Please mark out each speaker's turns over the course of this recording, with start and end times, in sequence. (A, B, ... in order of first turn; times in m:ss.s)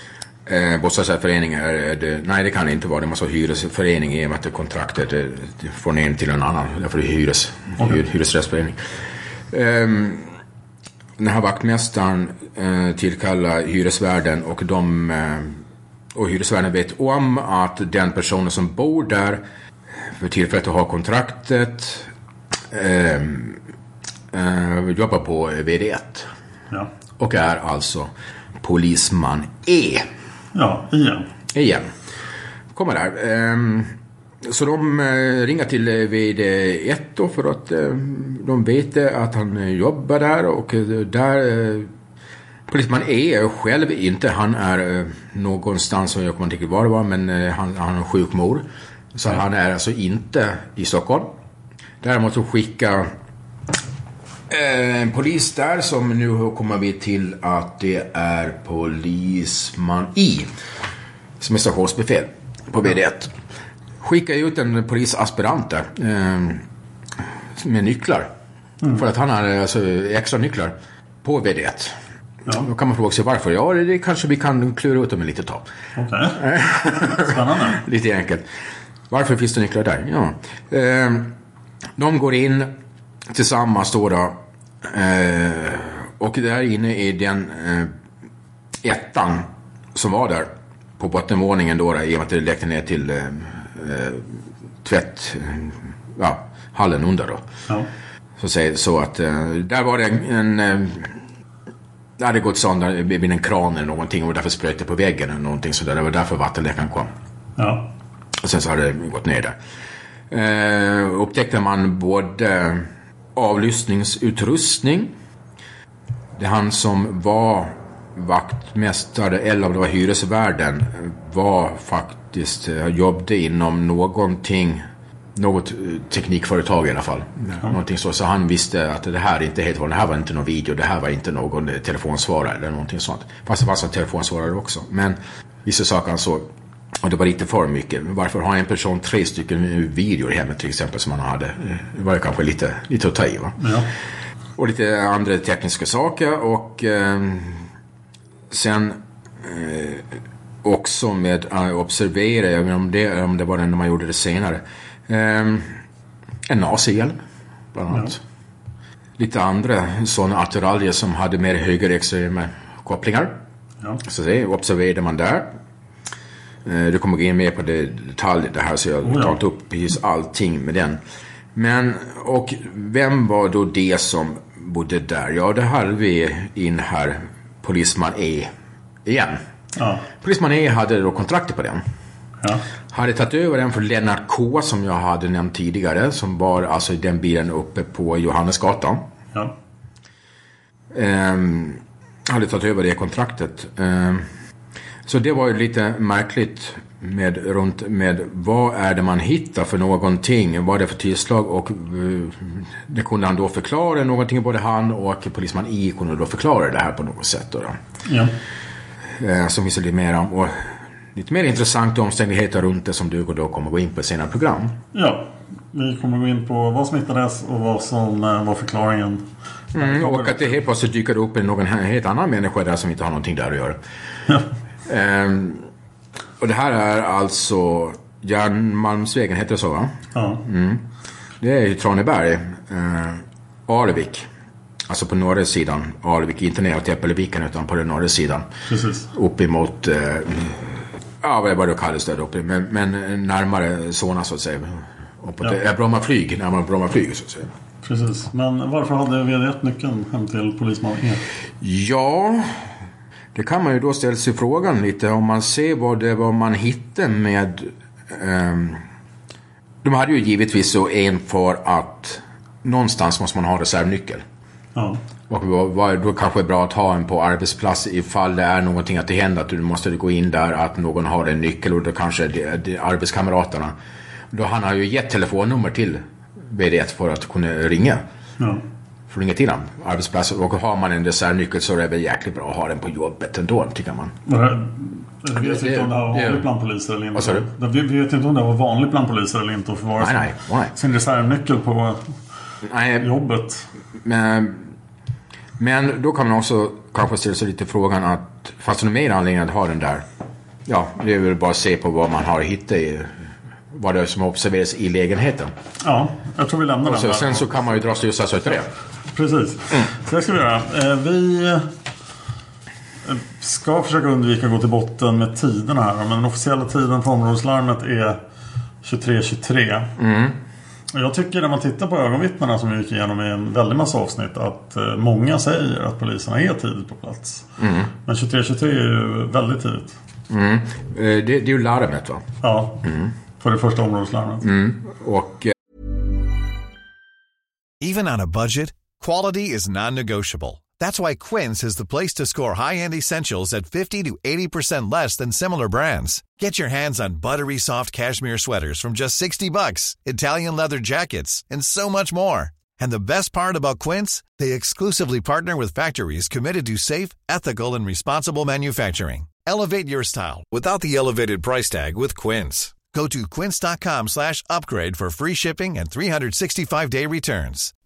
0:00.5-0:08.8 A
0:09.5-0:10.3 A
0:11.2-0:15.6 A
0:16.2-0:19.4 A
0:20.2-0:22.1 A
0:22.7-0:23.6 A
0:24.3-0:26.3 A
0:27.2-0:28.1 A
0:28.6-0:30.1 A
0:30.6-0:31.3 B
0:31.5-0:31.9 A
0:32.7-0:41.9 A
0:42.7-0:51.3 A
0:52.0-0:53.1 A
0:54.5-1:00.5 A
1:01.4-1:03.3 A
1:04.0-1:06.6 A
1:07.6-1:08.3 A
1:09.0-1:12.0 A
1:12.6-1:15.7 A
1:16.0-1:16.4 B
1:16.4-1:18.4 A
1:17.1-1:17.8 B
1:19.1-1:21.3 A
1:22.0-1:22.7 A
1:23.3-1:27.9 A
1:28.8-1:34.3 A
1:34.8-1:37.4 A
1:38.4-1:41.2 A
1:42.2-1:47.1 A
1:47.6-1:47.9 B
1:48.4-1:49.6 A
1:50.3-1:55.1 A
1:56.4-2:04.8 A
2:05.4-2:16.5 A
2:17.0-2:23.6 A
2:23.6-2:23.9 B
2:24.6-2:27.6 A
2:28.5-2:30.1 A
2:30.6-2:35.8 A
2:36.5-2:37.2 A
2:37.7-2:38.2 A
2:39.2-2:43.4 A
2:44.0-2:45.5 A
2:46.6-2:51.0 A
2:49.0-2:49.4 B
2:51.6-2:58.5 A
2:59.1-2:59.4 A
2:59.8-3:00.0 B
3:00.2-3:01.8 A
3:02.9-3:09.0 A
3:10.9-3:14.3 A
3:15.1-3:27.8 A
3:28.0-3:28.3 B
3:29.2-3:30.6 A
3:31.2-3:34.8 A
3:34.9-3:40.5 B
3:39.7-3:43.8 A
3:44.9-3:45.7 A
3:46.4-3:50.8 A
3:50.1-3:50.4 B
3:51.4-3:54.3 A
3:54.9-3:58.5 A
3:58.7-3:59.1 B
3:59.1-4:07.5 A
4:07.8-4:11.2 B
4:11.6-4:12.6 A
4:13.4-4:18.8 A
4:19.8-4:24.2 A
4:24.8-4:25.0 B
4:25.3-4:33.8 A
4:34.3-4:38.0 A
4:39.1-4:44.1 A
4:44.3-4:52.0 B
4:45.4-4:46.5 A
4:47.2-4:47.5 A
4:50.0-4:50.7 A
4:52.7-4:53.1 A
4:53.0-4:53.7 B
4:54.0-4:54.7 A
4:55.6-5:00.0 A
5:00.7-5:03.1 A
5:03.7-5:05.5 A
5:05.8-5:07.5 B
5:06.8-5:08.7 A
5:09.1-5:11.7 B
5:13.1-5:18.2 B
5:18.8-5:19.9 B
5:20.0-5:20.4 A
5:20.9-5:27.4 B
5:27.6-5:27.9 A
5:28.0-5:29.9 B
5:30.3-5:32.2 A
5:32.4-5:32.8 B
5:32.8-5:33.1 A
5:33.4-5:34.4 B
5:34.4-5:35.5 A
5:37.8-6:07.7 C